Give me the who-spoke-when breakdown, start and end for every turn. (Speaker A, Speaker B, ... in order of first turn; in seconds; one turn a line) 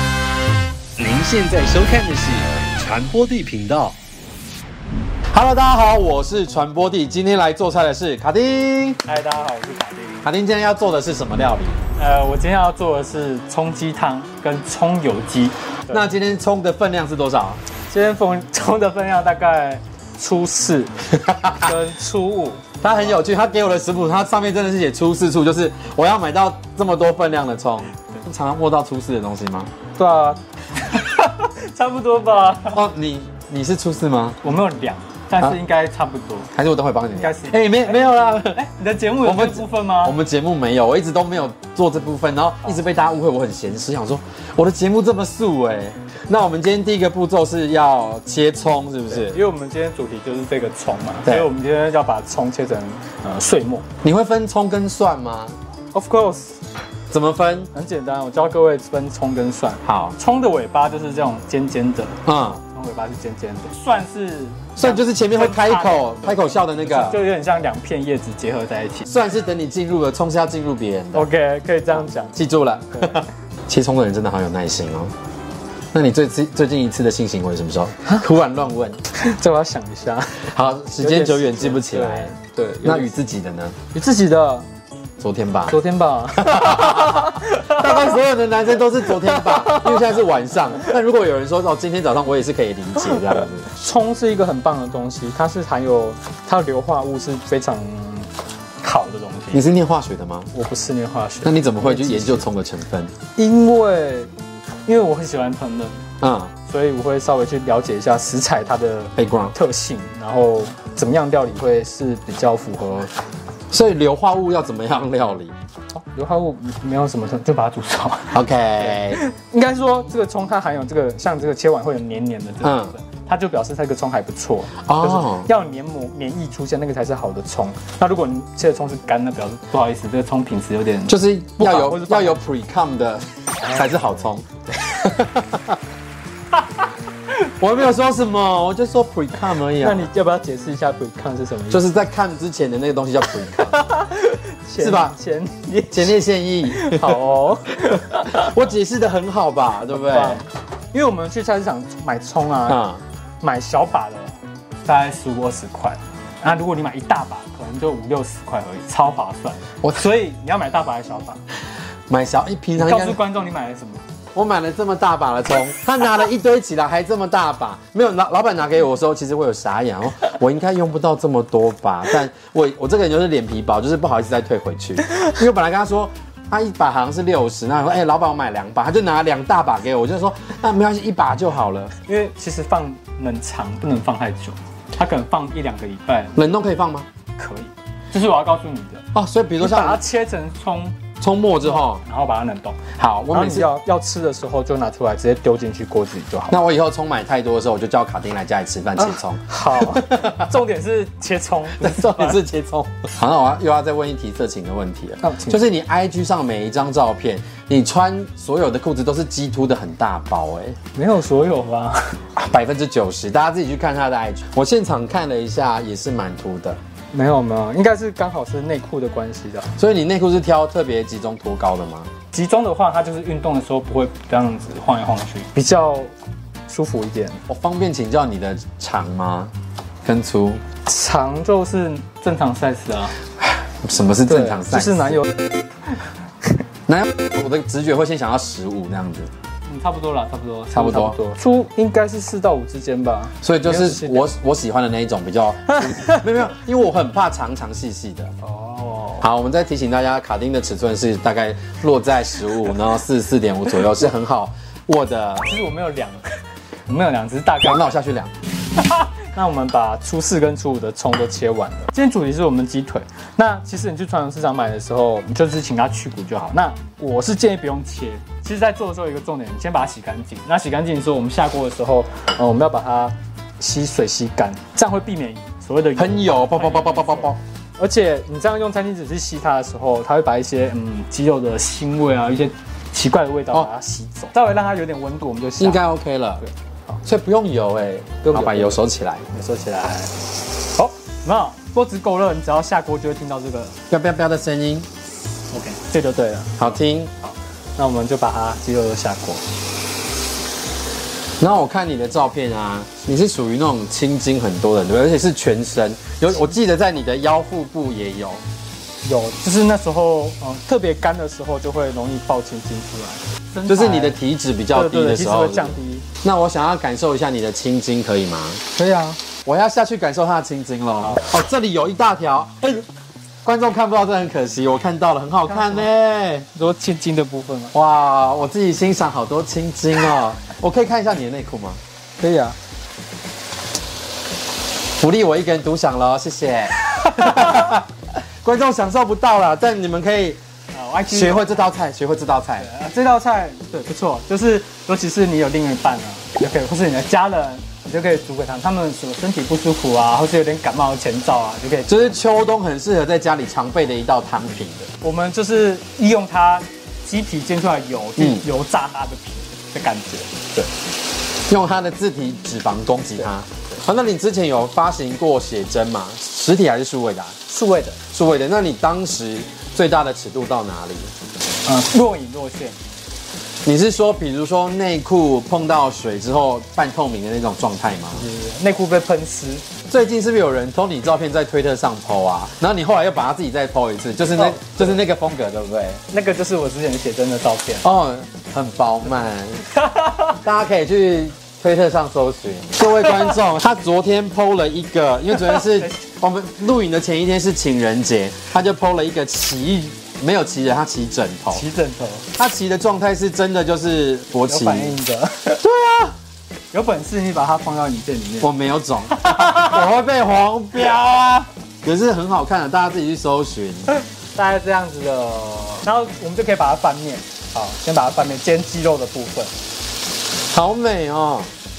Speaker A: 1.0-4.0
Speaker A: 5.3-9.0
Speaker B: 9.1-10.2
Speaker A: 10.2-11.8
Speaker B: 12.0-16.1
Speaker A: 15.9-17.6
Speaker B: 17.9-20.9
Speaker A: 21.1-21.7
Speaker B: 21.6-23.2
Speaker A: 22.8-29.7
Speaker B: 30.0-32.8
Speaker A: 32.7-34.4
Speaker B: 34.4-36.5
Speaker A: 36.5-38.6
Speaker B: 37.2-40.2
Speaker A: 39.2-49.4
Speaker B: 49.1-53.9
Speaker A: 51.2-51.5
Speaker A: 54.0-55.6
Speaker B: 55.9-56.6
Speaker A: 57.1-57.7
Speaker B: 57.7-69.1
Speaker A: 59.8-60.2
Speaker A: 62.2-62.6
Speaker A: 64.8-67.2
Speaker A: 69.1-71.3
Speaker B: 71.1-72.4
Speaker A: 72.3-75.1
Speaker B: 72.9-73.2
Speaker A: 75.9-79.0
Speaker B: 79.1-83.1
Speaker A: 80.5-83.7
Speaker B: 83.9-84.7
Speaker A: 85.2-85.8
Speaker B: 85.7-88.2
Speaker A: 86.4-93.7
Speaker B: 89.2-90.0
Speaker B: 93.1-98.3
Speaker B: 98.8-99.6
Speaker A: 99.5-100.5
Speaker B: 100.5-102.5
Speaker A: 101.4-103.1
Speaker B: 103.3-104.3
Speaker B: 104.8-106.0
Speaker A: 106.2-106.5
Speaker B: 106.7-113.1
Speaker A: 109.2-109.5
Speaker A: 113.7-115.5
Speaker B: 115.9-132.4
Speaker A: 118.3-119.2
Speaker A: 122.6-122.9
Speaker A: 124.8-125.5
Speaker A: 131.1-134.4
Speaker B: 133.6-134.2
Speaker B: 134.8-135.1
Speaker A: 135.0-135.8
Speaker A: 137.4-140.1
Speaker B: 139.8-141.8
Speaker A: 141.7-143.8
Speaker B: 143.6-146.1
Speaker A: 144.8-145.2
Speaker A: 145.9-147.2
Speaker B: 146.7-148.6
Speaker A: 148.3-150.4
Speaker B: 149.9-152.8
Speaker A: 152.7-153.0
Speaker B: 153.4-161.4
Speaker A: 162.1-163.2
Speaker B: 162.8-164.0
Speaker A: 164.3-181.9
Speaker B: 182.1-186.4
Speaker A: 186.3-187.1
Speaker B: 187.4-189.0
Speaker A: 189.1-190.0
Speaker B: 189.6-191.0
Speaker A: 191.2-192.0
Speaker B: 191.6-192.8
Speaker A: 192.9-193.7
Speaker B: 193.3-196.6
Speaker A: 196.5-200.5
Speaker B: 199.0-202.4
Speaker A: 201.8-210.8
Speaker B: 205.2-205.6
Speaker B: 210.9-212.2
Speaker A: 212.4-216.8
Speaker B: 217.1-219.7
Speaker A: 219.8-222.1
Speaker B: 222.3-226.1
Speaker B: 226.7-227.4
Speaker A: 227.5-229.5
Speaker A: 230.0-230.6
Speaker B: 230.8-233.2
Speaker A: 233.4-235.2
Speaker B: 234.3-235.3
Speaker A: 236.9-239.3
Speaker B: 239.7-244.3
Speaker A: 240.7-241.2
Speaker A: 243.4-248.3
Speaker B: 245.7-246.2
Speaker B: 248.4-249.3
Speaker A: 249.2-255.5
Speaker B: 255.4-258.0
Speaker A: 257.6-258.3
Speaker B: 258.8-285.8
Speaker A: 276.0-277.4
Speaker A: 285.6-286.4
Speaker B: 286.4-287.0
Speaker A: 287.1-289.3
Speaker B: 288.2-290.1
Speaker B: 290.7-293.8
Speaker A: 293.9-294.9
Speaker B: 295.5-299.4
Speaker A: 296.6-297.1
Speaker A: 301.4-308.4
Speaker B: 309.0-314.2
Speaker A: 313.7-318.6
Speaker B: 314.7-316.1
Speaker B: 318.8-319.2
Speaker A: 319.4-322.9
Speaker A: 323.4-326.5
Speaker B: 325.5-325.9
Speaker B: 326.6-327.7
Speaker A: 327.7-331.8
Speaker B: 332.2-332.6
Speaker A: 335.0-340.4
Speaker B: 340.7-341.6
Speaker A: 341.1-342.7
Speaker B: 342.6-352.1
Speaker A: 351.9-354.9
Speaker B: 355.0-360.7
Speaker A: 358.2-358.5
Speaker A: 361.5-367.4
Speaker B: 363.2-363.8
Speaker B: 367.5-368.0
Speaker A: 368.1-371.1
Speaker B: 371.6-372.8
Speaker A: 373.6-378.2
Speaker B: 378.2-379.6
Speaker A: 379.9-386.0
Speaker B: 384.3-385.0
Speaker B: 386.1-387.9
Speaker A: 387.8-389.6
Speaker B: 389.9-390.2
Speaker A: 390.2-401.6
Speaker B: 393.1-393.3
Speaker B: 395.3-396.0
Speaker B: 401.5-402.3
Speaker A: 402.4-405.0
Speaker B: 404.5-405.6
Speaker A: 405.6-406.1
Speaker B: 406.7-408.5
Speaker A: 408.4-413.9
Speaker B: 409.1-409.8
Speaker B: 414.4-419.5
Speaker A: 420.5-421.5